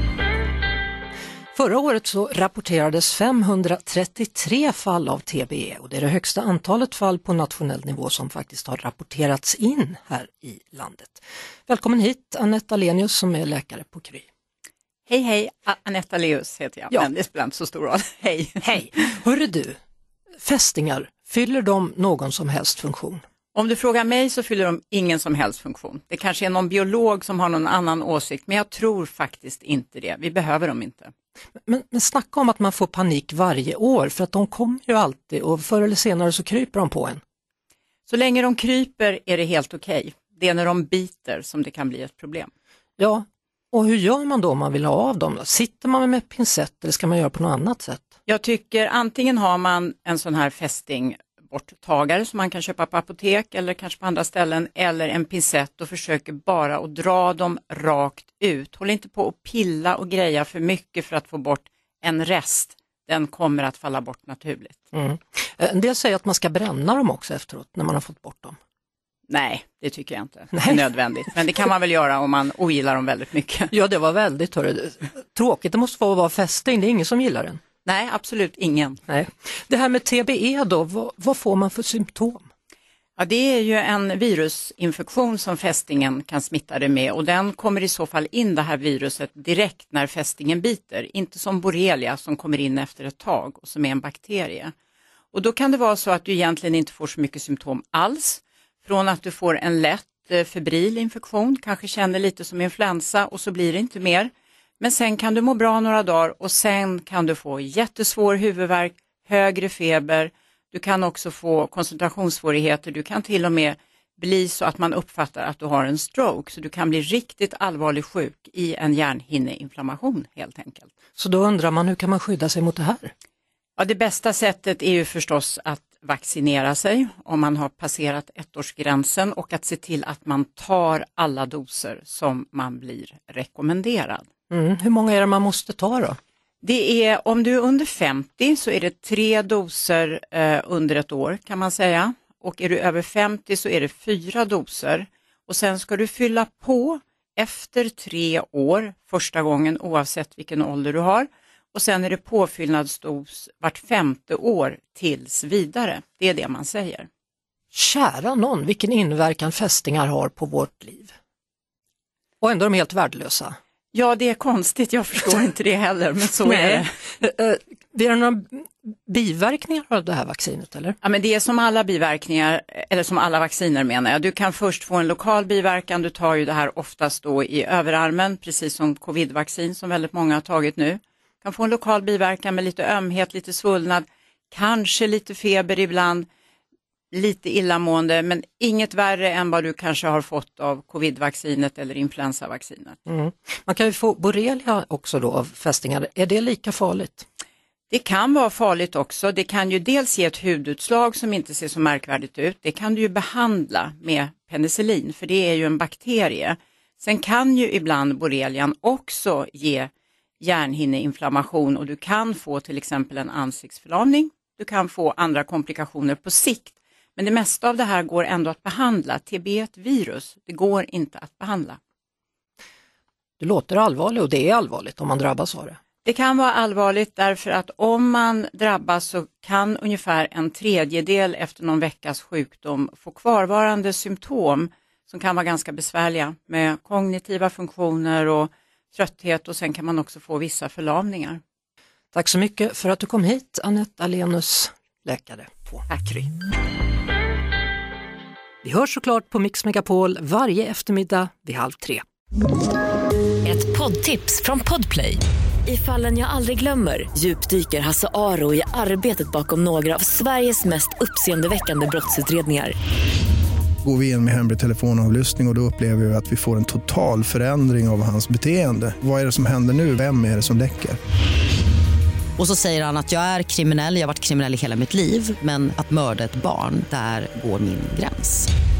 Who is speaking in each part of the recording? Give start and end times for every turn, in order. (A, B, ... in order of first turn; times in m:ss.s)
0:01.5-0:14.2 A
0:15.1-0:18.6 B
0:18.6-0:19.8 A
0:20.4-0:23.2 A
0:23.6-0:31.1 B
0:31.7-0:37.2 A
0:38.1-0:42.5 B
0:43.0-0:48.1 A
0:48.3-1:04.8 B
1:04.9-1:08.6 A
1:09.3-1:13.7 B
1:10.5-1:10.8 A
1:13.7-1:17.6 A
1:17.8-1:19.0 B
1:19.1-1:22.5 A
1:23.2-1:34.7 B
1:35.3-2:00.9 B
2:01.2-2:03.1 A
2:03.8-2:14.2 B
2:14.5-2:16.2 A
2:16.6-2:37.1 B
2:37.7-2:41.1 A
2:42.4-2:43.6 A
2:43.9-2:46.9 B
2:46.4-2:51.0 A
2:51.0-3:06.2 B
3:07.1-3:13.0 B
3:13.1-3:17.2 A
3:17.9-3:29.9 B
3:30.4-3:41.8 B
3:43.4-3:45.8 A
3:46.0-4:01.4 B
4:02.1-4:05.8 A
4:05.9-4:06.3 B
4:08.6-4:12.0 A
4:13.4-4:22.7 C
4:23.8-4:31.0 D
4:32.4-4:38.5 E